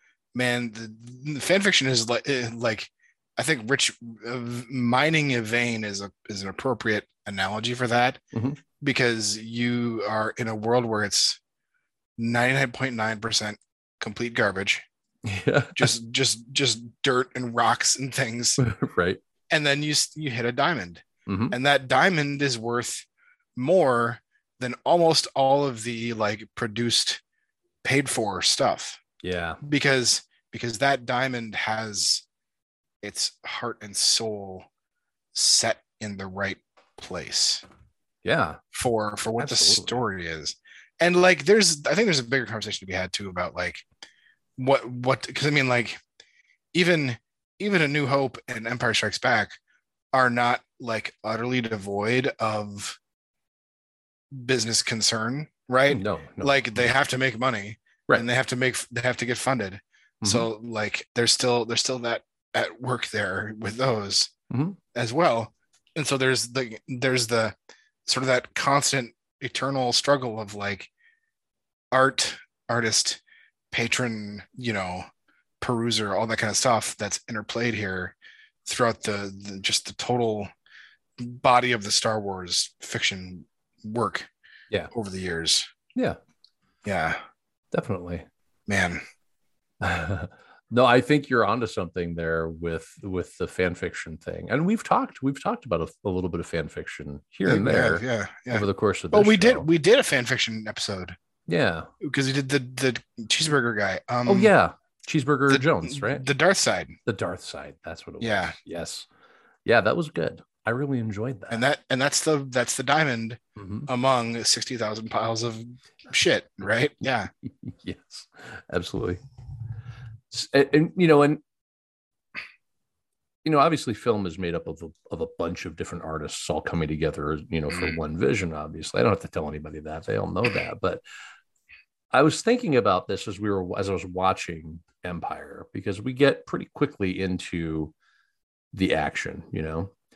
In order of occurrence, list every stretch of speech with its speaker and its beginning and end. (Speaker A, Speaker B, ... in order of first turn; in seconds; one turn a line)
Speaker A: 0.3-8.2
Speaker B: 8.3-8.6
Speaker A: 8.8-11.4
Speaker A: 12.2-14.8
Speaker B: 15.2-15.9
Speaker A: 15.8-18.6
Speaker B: 18.6-19.2
Speaker A: 19.5-27.2
Speaker B: 21.3-21.6
Speaker A: 27.8-29.0
Speaker B: 29.2-29.6
Speaker A: 29.6-32.2
Speaker A: 33.0-34.7
Speaker A: 35.3-37.6
Speaker B: 38.2-38.6
Speaker A: 38.7-43.8
Speaker B: 39.4-40.0
Speaker A: 44.6-46.0
Speaker A: 46.7-49.5
Speaker A: 50.1-53.0
Speaker A: 54.3-64.3
Speaker B: 55.9-56.8
Speaker B: 60.2-60.5
Speaker B: 64.5-64.8
Speaker A: 65.0-67.5
Speaker A: 68.1-70.9
Speaker A: 71.9-75.0
Speaker A: 75.6-80.5
Speaker A: 81.2-84.3
Speaker A: 84.9-85.7
Speaker A: 86.8-87.2
Speaker B: 87.7-88.3
Speaker A: 88.7-89.0
Speaker B: 89.8-99.7
Speaker A: 97.5-101.2
Speaker B: 101.5-101.9
Speaker A: 102.0-104.5
Speaker B: 104.3-106.3
Speaker A: 105.5-107.0
Speaker B: 107.1-109.1
Speaker A: 108.2-108.6
Speaker B: 109.7-111.7
Speaker A: 111.5-117.3
Speaker B: 113.6-113.9
Speaker B: 117.4-119.2
Speaker B: 120.3-121.4
Speaker B: 123.5-131.0
Speaker B: 132.1-137.9
Speaker B: 138.7-139.9